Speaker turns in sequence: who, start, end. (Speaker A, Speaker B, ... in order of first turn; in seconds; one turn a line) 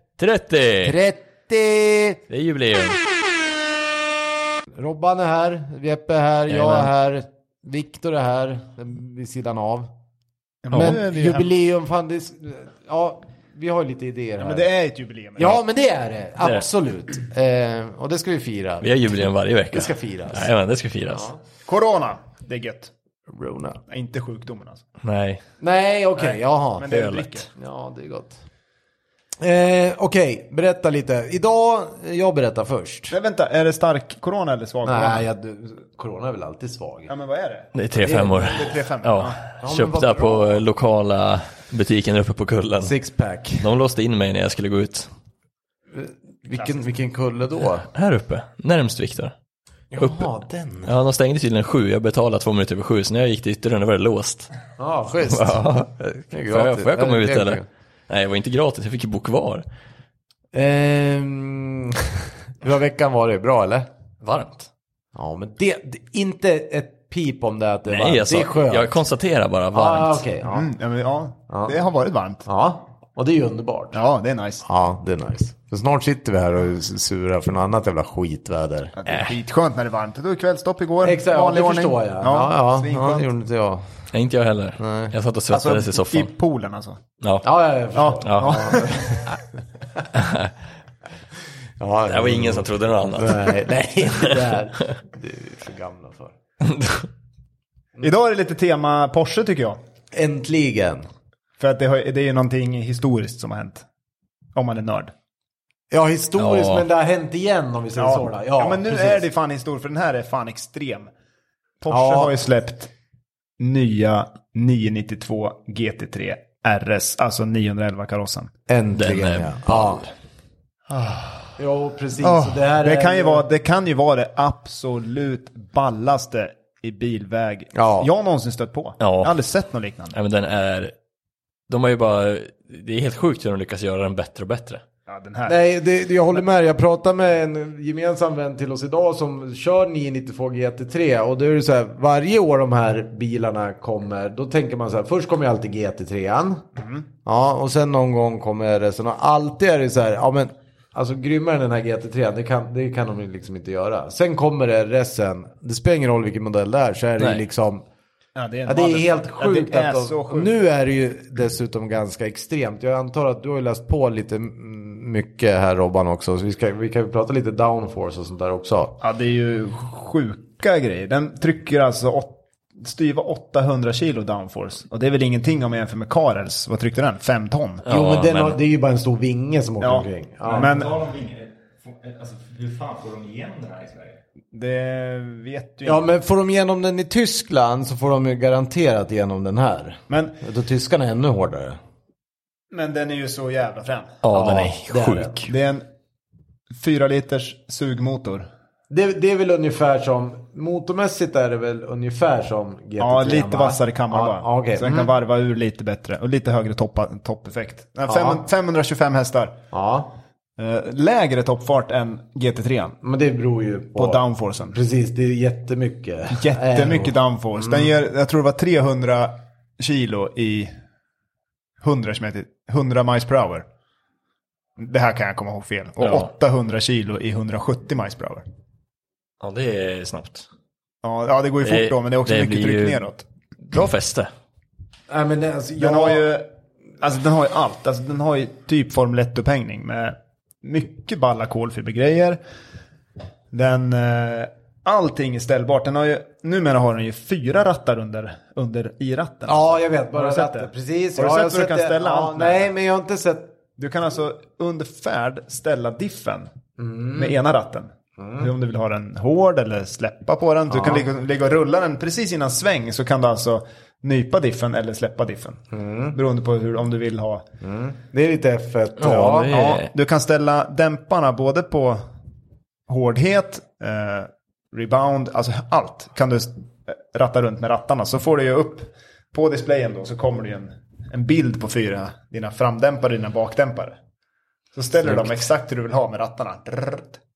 Speaker A: 0.2-0.9
Speaker B: 0.8-2.2
Speaker A: 2.3-3.0
Speaker B: 4.8-9.9
Speaker A: 6.5-6.9
Speaker C: 10.6-11.5
Speaker A: 10.7-11.0
Speaker B: 10.7-14.6
Speaker C: 14.4-15.6
Speaker B: 15.4-19.1
Speaker A: 18.8-21.3
Speaker B: 19.7-20.5
Speaker B: 21.1-21.4
Speaker C: 21.6-22.9
Speaker B: 23.3-23.8
Speaker C: 23.9-24.8
Speaker A: 25.0-25.4
Speaker B: 25.6-28.4
Speaker C: 26.2-27.5
Speaker A: 26.9-27.5
Speaker B: 29.4-33.1
Speaker C: 33.1-35.2
Speaker B: 34.8-37.1
Speaker C: 37.1-37.7
Speaker A: 37.7-42.9
Speaker B: 37.9-38.6
Speaker C: 38.5-39.4
Speaker B: 39.6-40.6
Speaker B: 42.8-43.7
Speaker A: 43.6-45.1
Speaker B: 45.9-47.9
Speaker A: 47.9-49.3
Speaker B: 49.9-50.9
Speaker A: 50.0-50.3
Speaker A: 50.9-54.5
Speaker B: 54.8-57.6
Speaker A: 55.3-55.9
Speaker A: 56.5-59.6
Speaker B: 60.5-63.9
Speaker A: 64.2-64.7
Speaker B: 65.1-68.9
Speaker A: 67.9-70.2
Speaker B: 69.7-70.7
Speaker C: 70.5-72.5
Speaker B: 71.5-71.8
Speaker B: 72.5-74.0
Speaker C: 73.9-74.6
Speaker B: 74.6-79.0
Speaker C: 79.0-83.3
Speaker A: 79.1-79.3
Speaker B: 81.0-83.8
Speaker A: 84.1-86.3
Speaker B: 84.8-85.1
Speaker C: 85.5-87.0
Speaker B: 87.4-89.2
Speaker C: 88.0-89.0
Speaker A: 88.2-89.0
Speaker A: 90.1-90.5
Speaker B: 91.8-96.3
Speaker A: 92.1-94.4
Speaker A: 96.6-97.1
Speaker C: 98.0-99.8
Speaker B: 100.1-101.1
Speaker C: 101.6-103.8
Speaker C: 104.5-105.1
Speaker B: 105.9-109.2
Speaker A: 106.4-106.8
Speaker C: 108.0-111.1
Speaker C: 111.8-112.9
Speaker B: 111.9-112.3
Speaker C: 113.6-118.5
Speaker B: 118.7-120.0
Speaker A: 118.9-120.1
Speaker C: 120.9-121.5
Speaker B: 121.6-123.4
Speaker C: 122.2-130.2
Speaker B: 127.7-128.1
Speaker A: 129.0-129.3
Speaker A: 130.1-130.9
Speaker A: 131.7-134.8
Speaker C: 135.1-135.6
Speaker B: 135.4-146.6
Speaker C: 146.8-147.1
Speaker B: 147.2-157.8
Speaker C: 158.3-160.5
Speaker B: 158.7-169.0
Speaker C: 169.0-177.8
Speaker A: 177.8-178.6
Speaker B: 177.9-180.7
Speaker C: 179.8-181.0
Speaker D: 180.4-184.2
Speaker C: 184.5-186.0
Speaker B: 185.8-191.8
Speaker C: 190.1-190.4
Speaker C: 192.7-194.2
Speaker A: 194.2-195.5
Speaker B: 194.3-195.4
Speaker C: 195.5-195.8
Speaker C: 196.7-198.5
Speaker B: 198.9-205.1
Speaker C: 203.0-209.6
Speaker B: 208.1-208.4
Speaker B: 209.7-210.1
Speaker C: 210.6-213.0
Speaker B: 213.0-217.9
Speaker C: 213.9-214.8
Speaker C: 216.3-220.7
Speaker C: 221.8-223.7
Speaker C: 224.8-228.4
Speaker A: 229.4-230.5
Speaker C: 231.0-233.2
Speaker A: 231.6-233.0
Speaker A: 233.7-234.3
Speaker B: 235.1-236.3
Speaker C: 235.8-236.5
Speaker C: 237.0-242.4
Speaker C: 243.5-252.7
Speaker B: 249.4-253.5
Speaker C: 253.8-256.5
Speaker B: 256.8-257.4
Speaker C: 257.1-267.4
Speaker B: 258.2-258.5
Speaker B: 260.7-261.1
Speaker B: 265.7-266.2
Speaker B: 267.6-269.5
Speaker A: 269.0-269.9
Speaker C: 269.5-272.0
Speaker C: 272.9-284.0
Speaker C: 284.7-287.2
Speaker B: 285.0-285.3